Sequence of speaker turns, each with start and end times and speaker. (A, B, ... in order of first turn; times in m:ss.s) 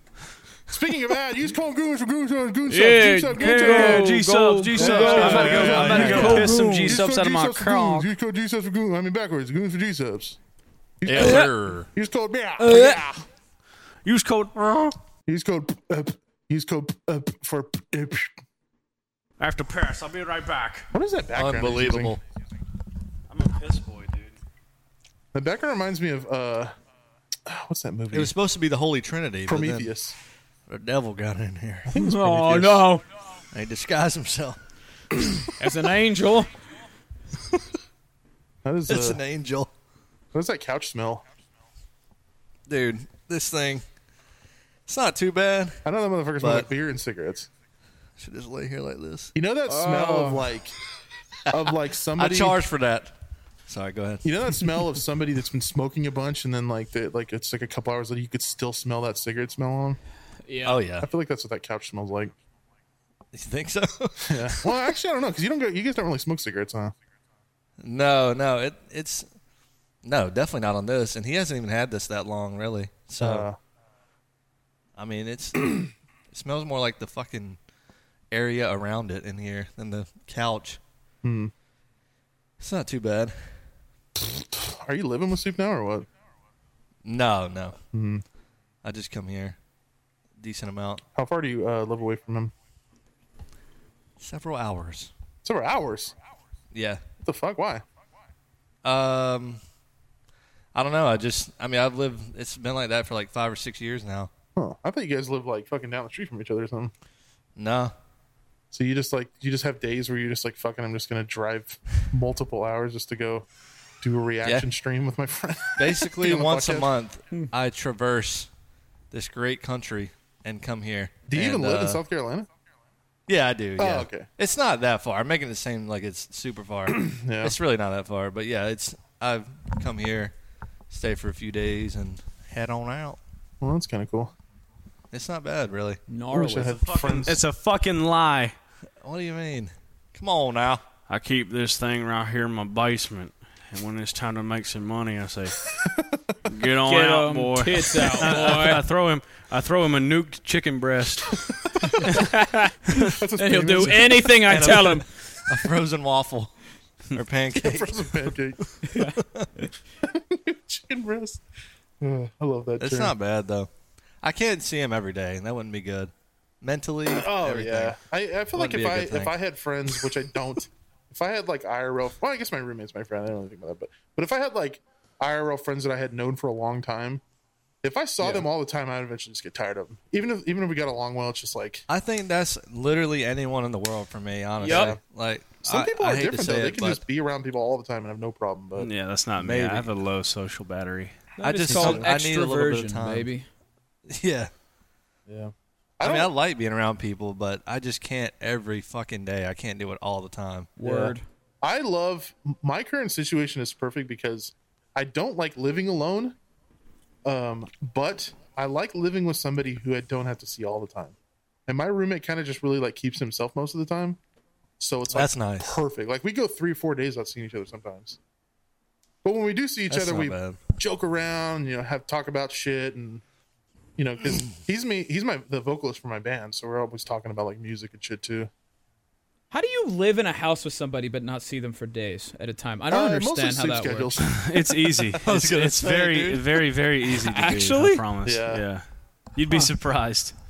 0:00.7-0:04.1 A
0:02.7-0:07.0 B
0:03.4-0:08.1 C
0:04.8-0:10.4 A
0:04.8-0:06.5 D
0:11.0-0:13.2 A
0:11.0-0:11.9 D
0:11.1-0:11.5 B
0:12.6-0:13.0 B
0:14.0-0:15.0 C
0:15.3-0:18.3 A
0:19.4-0:20.9 C
0:20.9-0:22.2 A
0:21.3-0:22.2 D
0:23.3-0:24.3 C
0:25.3-0:26.7 A
0:27.5-0:28.3 A
0:28.1-0:29.9 D
0:29.5-0:30.1 A
0:30.7-0:32.5 D
0:31.9-0:32.8 A
0:31.9-0:33.0 B
0:33.5-0:34.6 D
0:35.6-0:36.5 B
0:38.6-0:39.2 A
0:38.9-0:39.7 D
0:40.3-0:41.2 A
0:42.7-0:43.8 D
0:44.9-0:45.8 D
0:45.8-0:47.5 A
0:46.4-0:46.7 D
0:48.2-0:49.3 D
0:49.3-0:50.8 A
0:49.7-0:50.4 B
0:51.5-0:52.6 A
0:52.2-0:53.1 D
0:53.7-0:54.6 D
0:54.2-1:00.0 A
1:00.4-1:00.8 B
1:00.6-1:01.1 D
1:01.0-1:02.3 A
1:03.3-1:04.7 D
1:04.3-1:06.9 A
1:07.8-1:09.3 D
1:10.0-1:13.5 D
1:13.2-1:13.6 A
1:15.0-1:17.6 D
1:18.3-1:20.8 D
1:21.2-1:21.5 A
1:22.6-1:23.5 D
1:24.2-1:26.1 A
1:27.0-1:27.8 D
1:27.9-1:28.2 A
1:28.8-1:29.6 D
1:30.4-1:31.0 D
1:31.2-1:32.5 A
1:34.2-1:35.1 D
1:35.4-1:36.1 A
1:36.7-1:37.0 D
1:37.2-1:37.8 A
1:38.8-1:39.6 D
1:40.7-1:44.3 D
1:44.6-1:46.9 A
1:47.6-1:47.9 D
1:48.7-1:53.4 A
1:54.0-1:56.9 A
1:55.8-1:58.5 D
1:59.1-2:02.0 D
2:01.3-2:02.5 A
2:03.3-2:10.3 D
2:03.8-2:04.3 A
2:06.9-2:07.6 A
2:10.9-2:13.2 D
2:13.6-2:14.3 A
2:15.1-2:16.0 D
2:16.1-2:16.8 B
2:16.3-2:17.4 A
2:16.8-2:18.5 C
2:19.0-2:20.8 D
2:21.1-2:25.7 C
2:26.5-2:31.7 C
2:26.8-2:28.8 B
2:32.0-2:35.0 B
2:33.1-2:34.4 A
2:34.4-2:36.5 D
2:37.1-2:38.4 D
2:37.5-2:38.6 A
2:38.8-2:39.2 B
2:39.0-2:39.5 D
2:40.0-2:41.4 A
2:42.0-2:43.1 A
2:42.8-2:43.7 D
2:44.2-2:48.0 D
2:47.1-2:57.2 A
2:48.5-2:49.4 D
2:57.8-3:01.8 A
2:58.2-2:58.4 D
3:01.9-3:07.0 D
3:04.6-3:04.9 B
3:04.6-3:05.0 A
3:05.6-3:08.9 A
3:08.8-3:11.2 C
3:09.4-3:09.9 D
3:11.4-3:13.4 B
3:11.4-3:13.3 D
3:11.7-3:12.0 A
3:14.1-3:14.5 D
3:15.3-3:16.3 A
3:16.0-3:20.7 D
3:20.8-3:21.2 B
3:20.8-3:26.4 A
3:27.2-3:31.2 A
3:31.7-3:34.2 A
3:34.8-3:38.2 A
3:35.1-3:35.8 D
3:39.2-3:43.2 A
3:39.9-3:40.6 D
3:44.0-3:48.5 A
3:49.5-3:54.1 B
3:52.9-3:55.0 A
3:54.2-3:58.8 C
3:55.2-3:56.6 D
3:57.1-3:58.0 B
3:58.2-3:58.6 A
3:59.4-4:00.3 C